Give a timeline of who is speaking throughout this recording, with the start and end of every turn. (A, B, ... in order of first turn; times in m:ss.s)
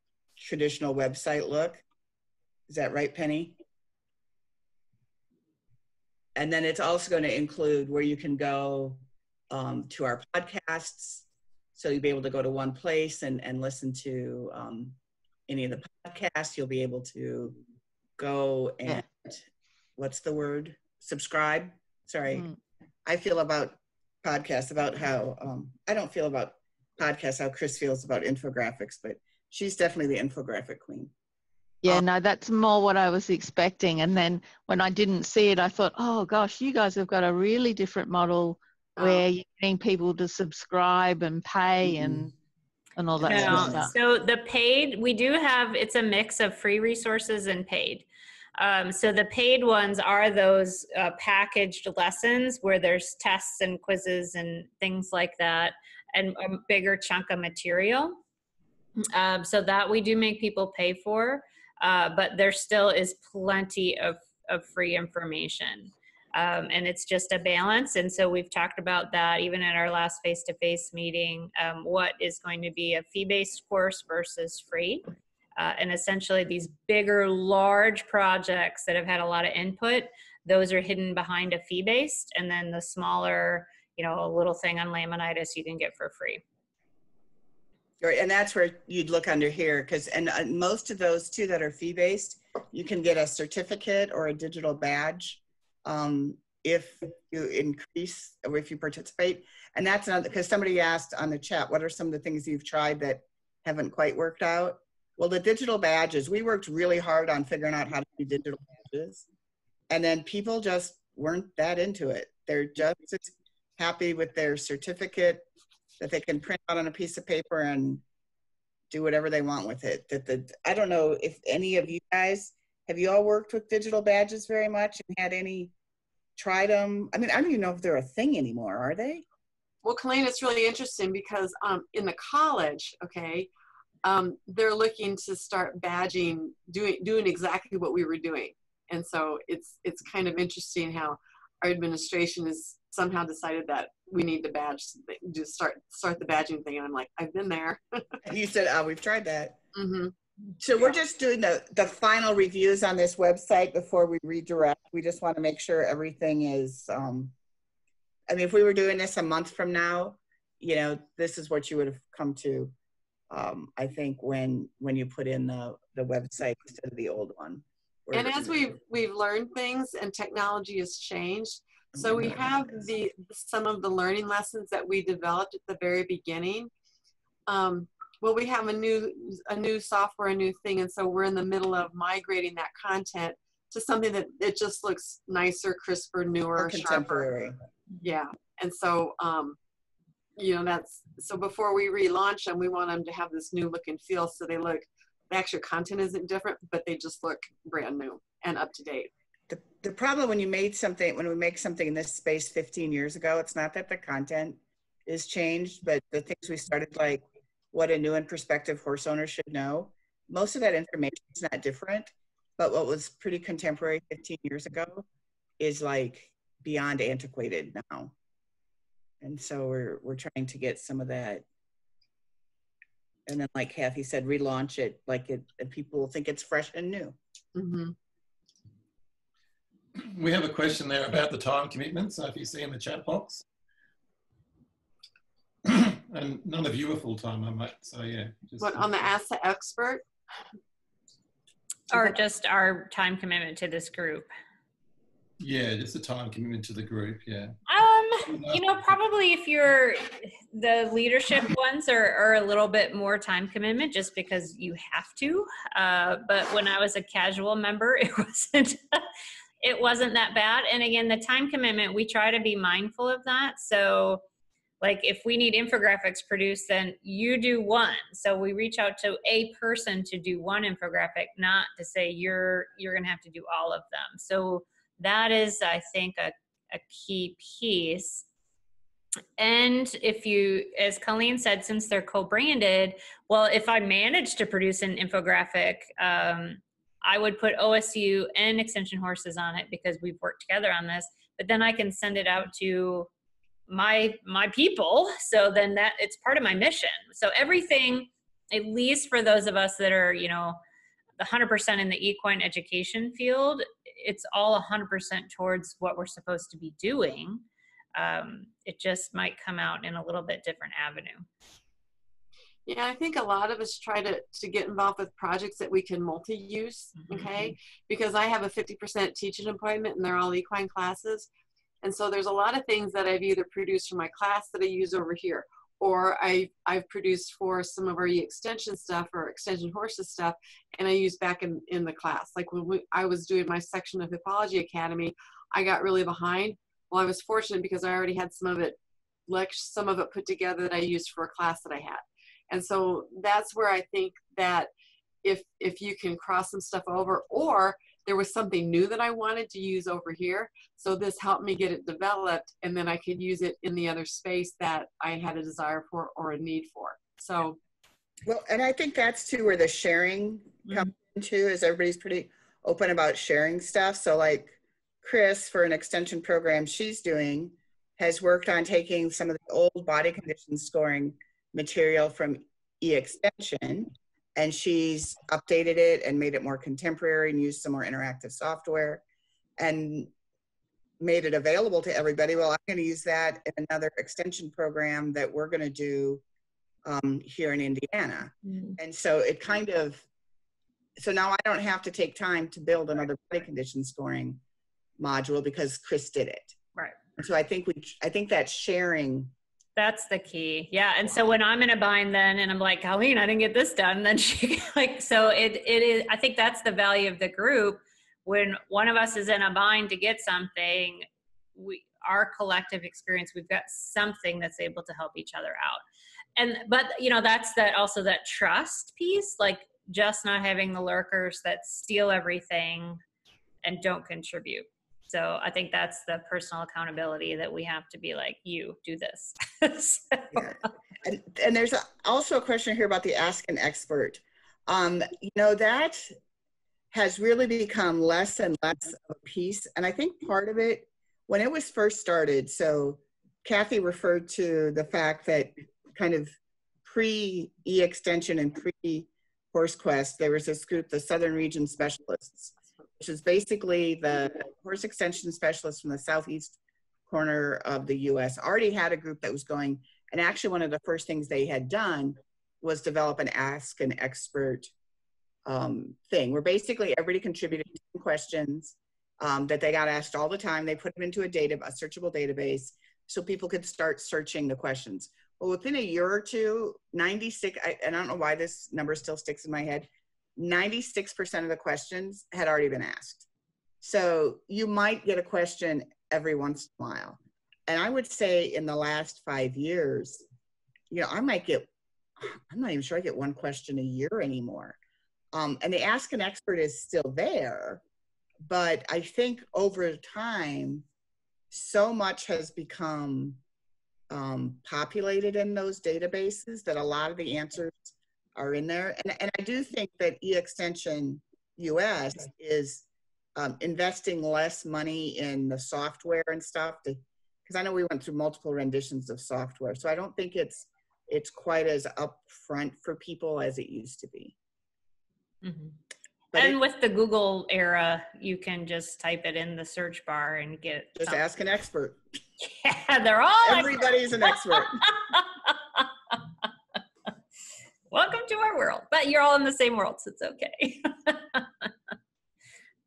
0:00.4-0:01.8 A
0:02.7-0:03.6 A
0:06.4-0:15.0 A
0:15.5-0:17.6 A
0:18.2-0:19.4 A
0:20.0-0:22.5 A
0:23.1-0:31.1 A
0:31.8-0:42.3 B
0:39.0-0:39.3 C
0:41.8-0:42.2 A
0:43.0-0:43.9 B
0:43.2-0:43.9 A
0:43.3-0:48.1 D
0:48.6-0:58.2 D
0:59.1-1:26.4 D
1:28.0-1:49.3 A
1:49.9-1:55.5 A
1:56.0-1:58.0 A
1:58.9-2:05.7 A
2:06.4-2:09.2 A
2:09.8-2:13.5 C
2:14.0-2:28.2 C
2:28.2-2:29.6 A
2:29.7-2:30.1 C
2:30.6-2:37.4 A
2:38.3-2:42.7 A
2:43.3-2:48.8 A
2:48.1-2:56.7 C
2:52.0-2:52.9 A
2:57.5-3:07.3 C
3:06.6-3:07.6 A
3:08.0-3:09.6 C
3:10.4-3:19.1 C
3:19.5-3:35.1 A
3:35.6-3:38.1 A
3:39.2-3:41.4 A
3:43.3-3:47.2 A
3:47.6-3:48.0 C
3:50.0-3:53.4 E
3:55.6-3:58.9 E
3:58.6-4:00.0 C
4:01.9-4:04.3 D
4:05.4-4:07.6 E
4:07.7-4:19.0 D
4:08.3-4:08.7 E
4:19.6-4:24.2 D
4:24.8-4:38.2 D
4:39.4-4:53.1 D
4:53.7-5:00.6 D
5:01.2-5:07.4 D
5:08.0-5:11.3 D
5:12.7-5:21.3 C
5:17.0-5:17.5 D
5:21.8-5:38.8 C
5:39.3-5:44.7 C
5:45.2-5:57.6 C
5:58.2-6:19.0 A
6:19.6-6:20.1 A
6:21.0-6:26.2 A
6:26.8-6:30.0 A
6:31.0-6:34.4 A
6:35.0-6:36.6 A
6:37.2-6:39.3 A
6:39.8-6:55.8 D
6:56.4-7:03.0 D
7:03.6-7:10.5 D
7:10.3-7:16.2 A
7:16.9-7:44.7 A
7:45.5-8:03.2 A
8:03.8-8:10.2 A
8:10.9-8:14.8 A
8:15.3-8:17.8 A
8:18.4-8:20.9 A
8:21.5-8:23.4 A
8:24.1-8:44.4 A
8:45.4-8:45.8 D
8:46.3-8:46.6 A
8:46.4-8:51.2 D
8:51.0-8:52.0 A
8:52.4-8:56.2 D
8:53.4-8:54.9 A
8:57.9-9:01.7 D